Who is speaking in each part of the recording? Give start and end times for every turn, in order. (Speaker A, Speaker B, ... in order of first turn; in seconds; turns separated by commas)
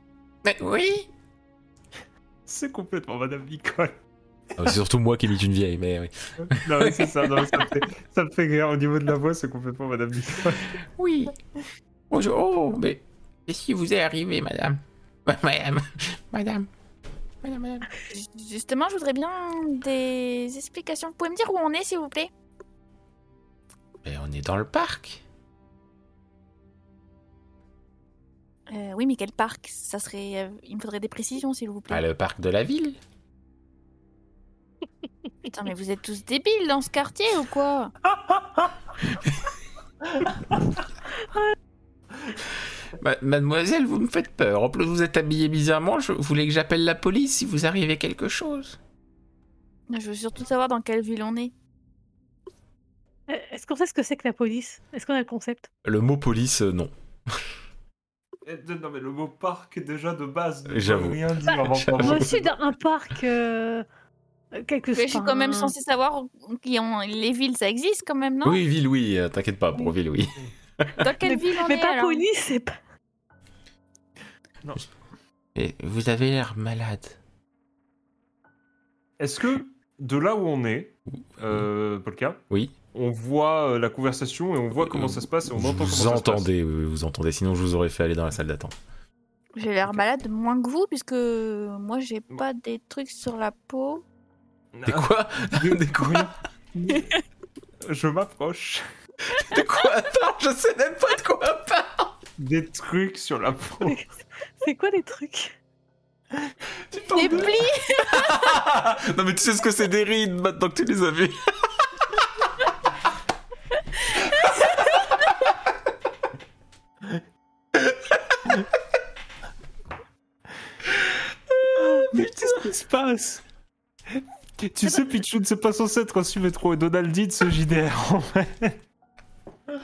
Speaker A: 0.4-1.1, Speaker B: 2.5-4.0, Speaker A: 4.6-7.7, Speaker B: 6.4-10.8, Speaker A: 11.0-11.4, Speaker A: 12.1-16.7, Speaker A: 17.4-17.9, Speaker C: 18.1-22.3, Speaker A: 24.0-25.2, Speaker C: 28.7-32.0, Speaker A: 31.9-33.0, Speaker C: 35.5-38.0, Speaker A: 42.9-48.8, Speaker C: 49.9-51.5, Speaker D: 53.3-55.7, Speaker A: 55.8-57.5, Speaker B: 58.5-62.5, Speaker A: 60.7-62.5, Speaker D: 61.5-63.9, Speaker D: 64.5-65.7, Speaker C: 64.9-68.6, Speaker A: 68.4-71.1, Speaker C: 71.0-72.2, Speaker D: 71.2-72.8, Speaker A: 75.6-77.2, Speaker B: 79.2-82.4, Speaker B: 82.9-86.5, Speaker A: 84.8-88.8, Speaker C: 89.6-94.0, Speaker B: 94.7-97.1, Speaker A: 94.9-96.3, Speaker B: 97.8-98.8, Speaker A: 99.3-102.2, Speaker B: 102.4-104.0, Speaker D: 104.6-105.5, Speaker A: 106.9-112.3, Speaker C: 107.1-108.6, Speaker B: 107.2-107.5, Speaker B: 121.8-123.4, Speaker B: 124.1-128.8